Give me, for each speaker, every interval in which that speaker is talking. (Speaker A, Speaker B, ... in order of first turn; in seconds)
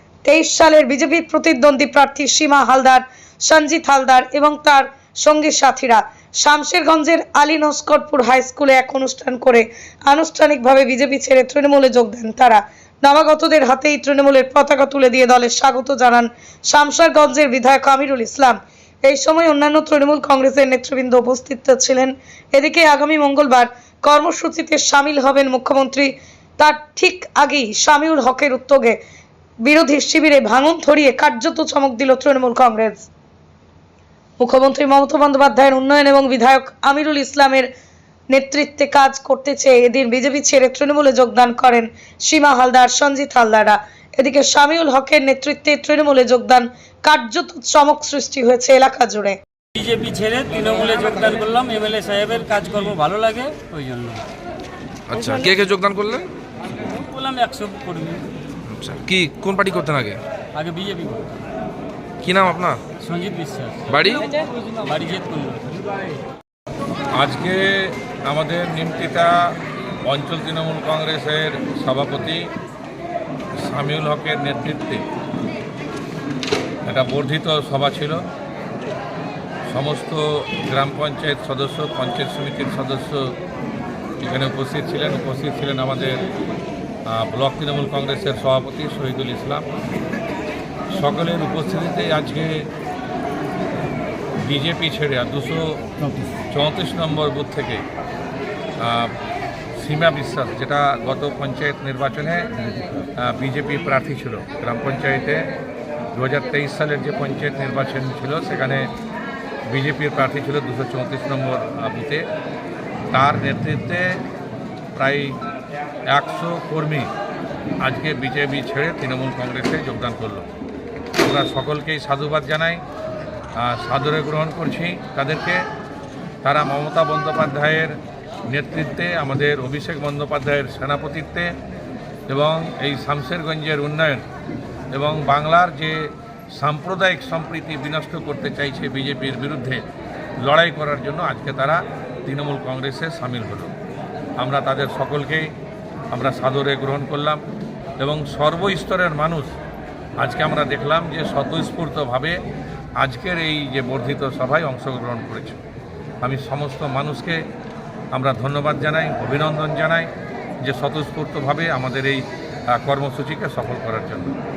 Speaker A: 0.2-29.0, 29.6-33.1, 34.4-37.7, 38.3-49.4
Speaker B: 49.8-54.2, 56.9-58.2, 60.5-61.4, 63.0-63.8, 64.8-65.8
Speaker C: 55.1-56.2, 58.7-60.2, 62.2-62.8, 63.9-64.4
Speaker D: 67.2-69.5, 70.1-72.4, 73.6-75.0, 76.9-78.2, 79.7-83.3, 84.2-86.2, 87.1-89.6, 90.9-92.7, 94.4-95.8, 96.5-97.8, 98.8-99.1, 99.8-102.5, 103.2-105.5, 106.1-108.9, 109.7-112.2, 113.1-114.2, 115.0-115.3, 116.1-117.1, 117.8-120.5, 121.2-122.8, 123.6-125.6, 126.4-128.0, 128.5-131.5, 132.3-134.2, 134.9-139.8, 140.4-143.7, 144.4-145.5, 146.1-147.4, 148.0-149.5, 150.2-152.4, 153.0-155.6, 156.2-157.4, 158.1-160.1, 160.6-164.3